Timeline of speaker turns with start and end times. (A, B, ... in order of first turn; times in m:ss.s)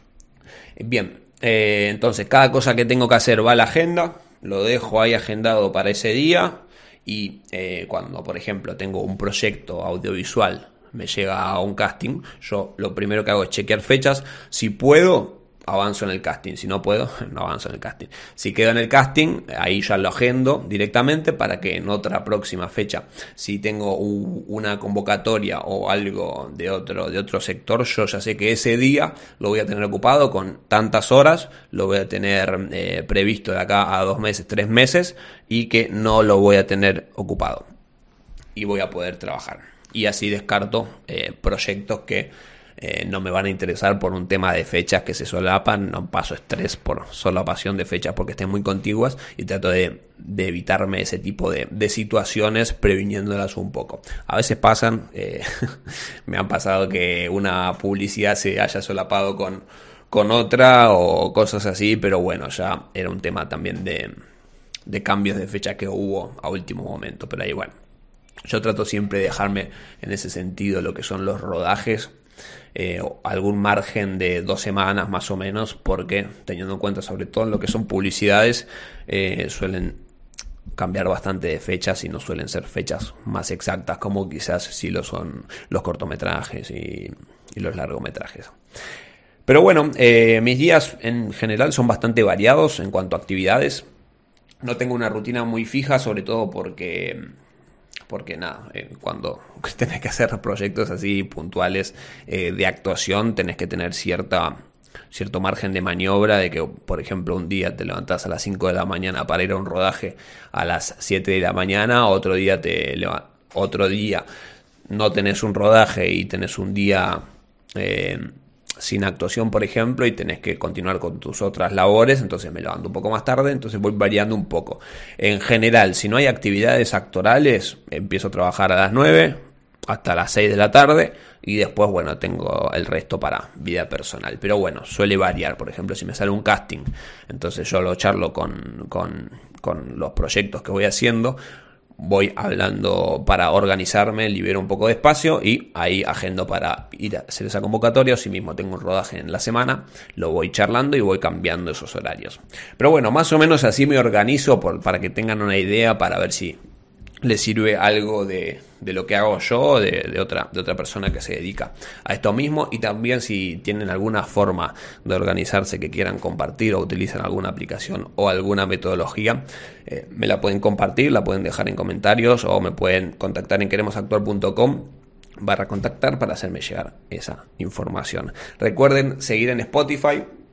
0:00.8-0:37.6 A
0:38.6-1:04.1 A
1:04.9-1:07.7 A
1:08.4-1:12.1 A
1:12.7-1:20.0 A
1:20.8-1:28.5 A
1:29.5-1:33.9 A
1:34.6-1:37.3 A
1:38.1-1:44.6 A
1:45.1-1:54.2 A
1:54.9-1:57.2 A
1:57.8-2:21.4 A
2:22.0-2:36.6 A
2:37.2-3:00.3 A